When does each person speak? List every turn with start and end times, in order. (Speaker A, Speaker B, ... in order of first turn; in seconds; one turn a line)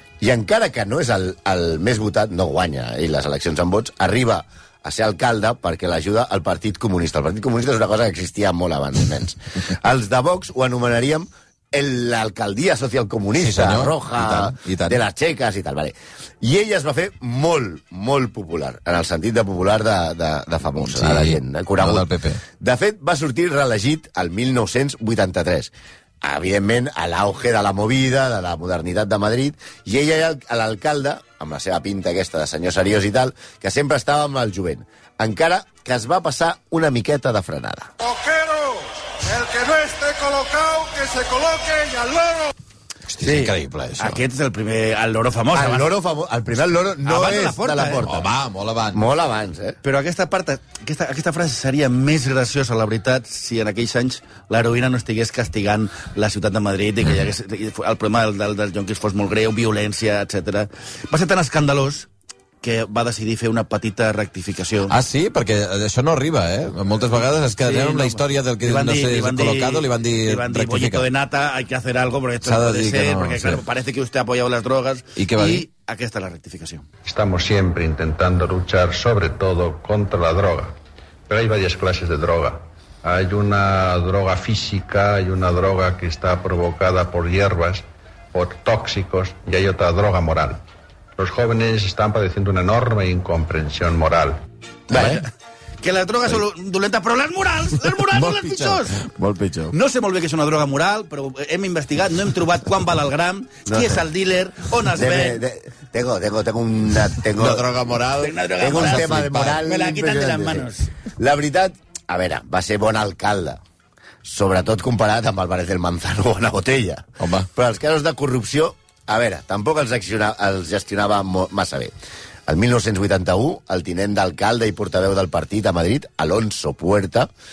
Speaker A: 0.2-22.1
Speaker B: 13.4-15.0
Speaker B: 20.8-22.4
Speaker A: 22.6-37.9
Speaker C: 38.1-38.6
Speaker C: 39.2-42.2
Speaker B: 43.1-44.2
Speaker D: 43.2-45.9
Speaker A: 45.5-48.3
Speaker D: 47.0-48.0
Speaker B: 48.0-49.0
Speaker A: 48.9-49.8
Speaker D: 49.8-62.1
Speaker D: 62.6-65.0
Speaker B: 64.9-71.1
Speaker D: 67.6-76.9
Speaker B: 72.4-73.6
Speaker B: 75.2-75.7
Speaker E: 77.0-80.8
Speaker E: 81.3-90.6
Speaker E: 91.2-94.4
Speaker A: 94.9-95.2
Speaker D: 94.9-95.3
Speaker B: 95.0-95.2
Speaker D: 95.8-99.0
Speaker B: 98.0-99.7
Speaker D: 99.7-105.4
Speaker A: 103.7-104.0
Speaker A: 104.9-107.7
Speaker B: 107.4-109.6
Speaker D: 108.2-110.9
Speaker A: 108.6-113.6
Speaker A: 114.2-121.9
Speaker B: 117.2-117.5
Speaker A: 122.5-127.3